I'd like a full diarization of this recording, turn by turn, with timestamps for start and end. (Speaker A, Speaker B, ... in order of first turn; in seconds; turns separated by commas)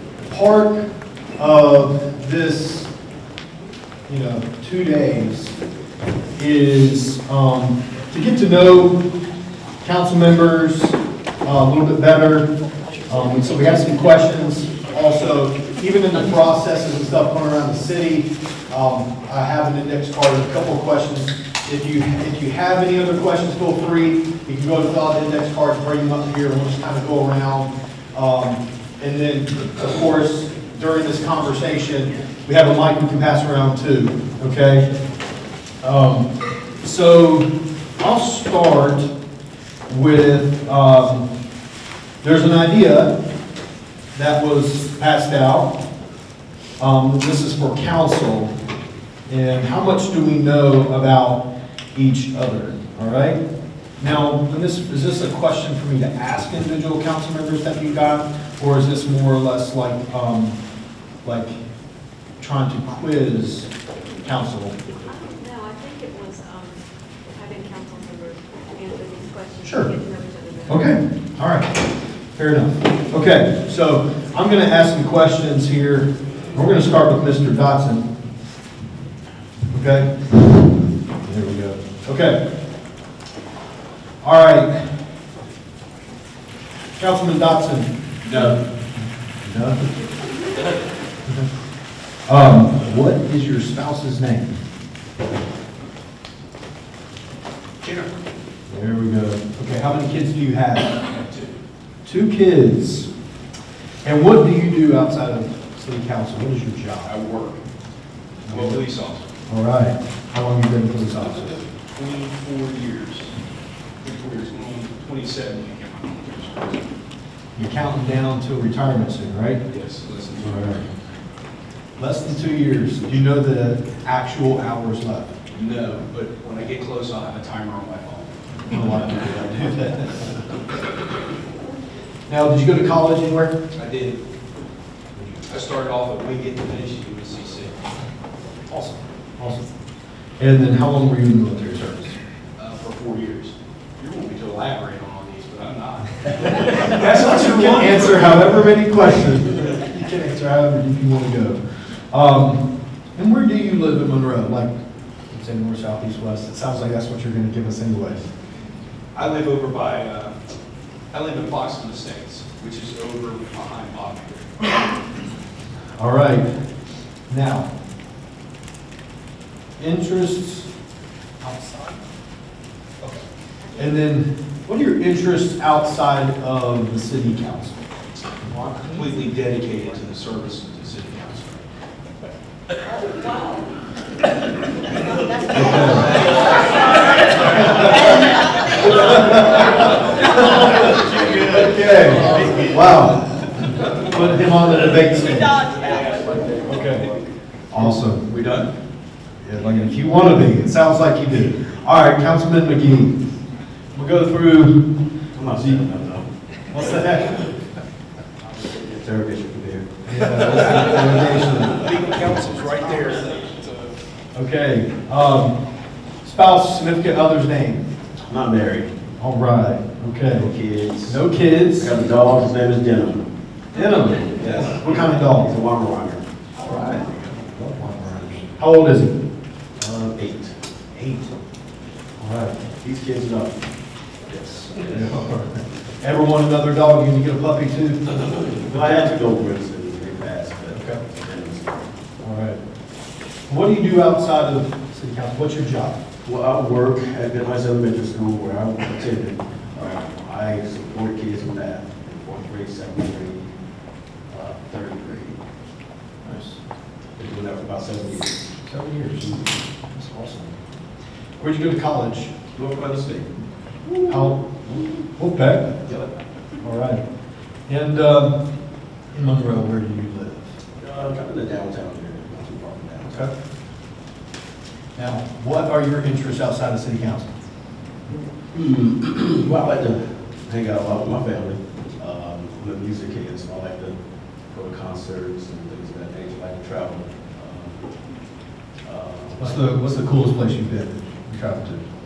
Speaker A: 0.2-2.9, Speaker A: 4.1-5.5, Speaker A: 6.4-9.0, Speaker A: 9.8-12.5, Speaker A: 13.1-34.9, Speaker A: 35.8-37.5, Speaker A: 38.0-39.1, Speaker A: 39.9-41.3, Speaker A: 42.2-43.1, Speaker A: 44.1-45.7, Speaker A: 46.8-48.5, Speaker A: 49.3-51.4, Speaker A: 51.9-53.4, Speaker A: 54.0-60.6, Speaker A: 61.2-61.5, Speaker A: 62.4-63.7, Speaker A: 64.2-64.8, Speaker B: 65.0-70.9, Speaker A: 69.6-69.9, Speaker A: 70.7-78.0, Speaker A: 79.7-82.4, Speaker A: 84.2-84.9, Speaker A: 87.0-88.5, Speaker C: 88.2-88.6, Speaker A: 89.4-89.9, Speaker A: 92.3-94.6, Speaker C: 97.8-98.2, Speaker A: 98.7-101.0, Speaker C: 101.0-101.6, Speaker A: 102.0-103.1, Speaker A: 104.0-107.1, Speaker C: 107.0-107.6, Speaker A: 108.5-108.8, Speaker C: 108.5-109.3, Speaker A: 109.5-111.6, Speaker C: 111.1-113.3, Speaker C: 114.0-116.9, Speaker A: 117.5-119.6, Speaker C: 119.7-120.9, Speaker A: 120.4-120.8, Speaker A: 122.0-125.3, Speaker C: 125.5-128.4, Speaker A: 128.7-130.4, Speaker A: 132.3-133.5, Speaker C: 133.7-134.2, Speaker C: 135.2-137.9, Speaker C: 138.7-139.0, Speaker A: 139.4-139.7, Speaker A: 140.4-142.2, Speaker C: 142.6-148.6, Speaker A: 146.6-151.6, Speaker A: 152.1-152.6, Speaker A: 153.1-154.7, Speaker A: 155.3-158.3, Speaker C: 159.1-160.3, Speaker C: 161.1-164.8, Speaker A: 166.0-166.5, Speaker A: 167.3-167.7, Speaker A: 169.8-170.7, Speaker A: 171.4-172.0, Speaker A: 173.8-177.8, Speaker C: 178.5-181.7, Speaker B: 183.0-183.7, Speaker A: 185.5-186.3, Speaker C: 186.1-188.0, Speaker B: 186.2-186.7, Speaker A: 187.5-188.2, Speaker C: 188.8-192.9, Speaker A: 188.8-193.2, Speaker A: 193.9-195.7, Speaker B: 195.3-196.3, Speaker C: 195.6-197.1, Speaker A: 196.6-197.1, Speaker A: 197.7-198.2, Speaker C: 197.8-198.7, Speaker A: 199.4-203.1, Speaker A: 203.9-204.8, Speaker D: 205.3-206.3, Speaker A: 205.5-205.8, Speaker A: 206.7-207.5, Speaker D: 208.4-209.9, Speaker A: 210.1-212.0, Speaker C: 210.4-214.0, Speaker A: 214.3-215.6, Speaker A: 216.2-217.8, Speaker D: 218.2-218.9, Speaker A: 219.2-220.5, Speaker D: 220.3-221.2, Speaker A: 221.1-221.9, Speaker D: 221.7-223.2, Speaker A: 223.7-225.5, Speaker D: 224.3-226.2, Speaker B: 226.6-227.0, Speaker A: 226.6-229.2, Speaker D: 229.8-231.2, Speaker A: 232.2-232.6, Speaker D: 232.8-233.6, Speaker A: 234.4-238.4, Speaker D: 238.5-241.8, Speaker A: 240.7-241.0, Speaker A: 242.2-242.6, Speaker A: 243.5-246.0, Speaker D: 246.2-253.5, Speaker D: 254.3-255.4, Speaker A: 256.2-256.6, Speaker D: 257.1-258.5, Speaker A: 258.6-260.5, Speaker A: 261.4-262.3, Speaker D: 262.5-263.3, Speaker A: 264.1-264.5, Speaker A: 265.1-265.7, Speaker D: 265.8-266.1, Speaker A: 266.6-267.0, Speaker A: 267.7-268.3, Speaker A: 269.1-270.5, Speaker D: 270.8-273.1, Speaker A: 273.1-273.3, Speaker A: 274.9-277.3, Speaker D: 278.4-283.9, Speaker D: 284.5-287.9, Speaker D: 288.8-289.7, Speaker A: 289.4-291.8